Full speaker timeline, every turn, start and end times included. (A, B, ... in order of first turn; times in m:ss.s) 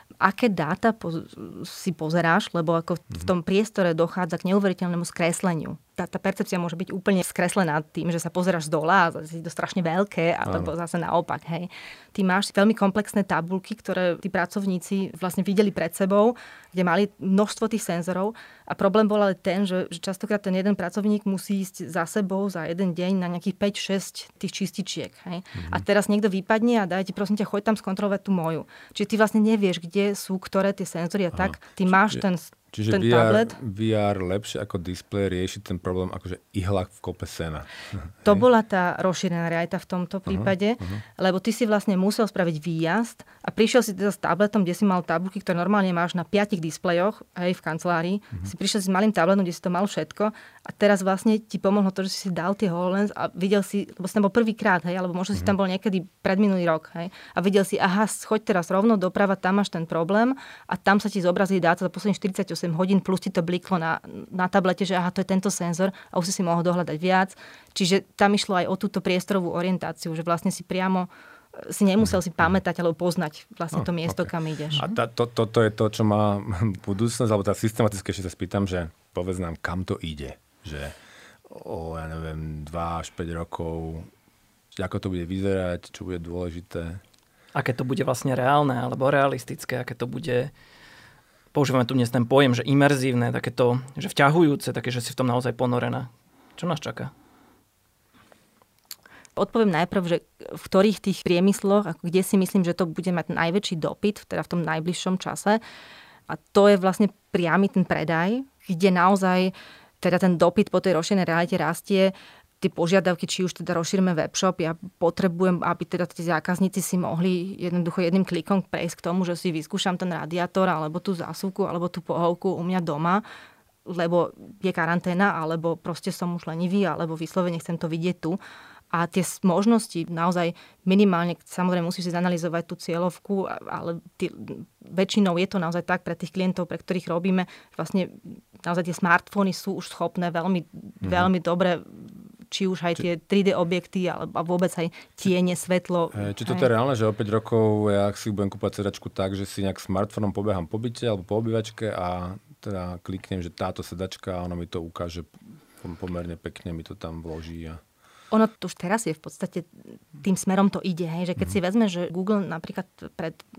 0:00.2-0:33.5 A
0:25.6-0:25.8 B
0:32.7-0:38.4 B
0:38.2-1:14.8 A
0:40.3-0:41.0 B
1:13.7-1:20.9 B
1:21.5-1:24.1 B
1:24.7-1:27.0 B
1:27.5-1:30.5 C
1:31.5-1:37.1 C
1:39.4-1:45.6 A
1:46.3-2:03.2 A
2:03.8-2:08.4 A
2:08.9-2:26.7 A
2:26.1-2:37.8 B
2:38.3-2:43.4 A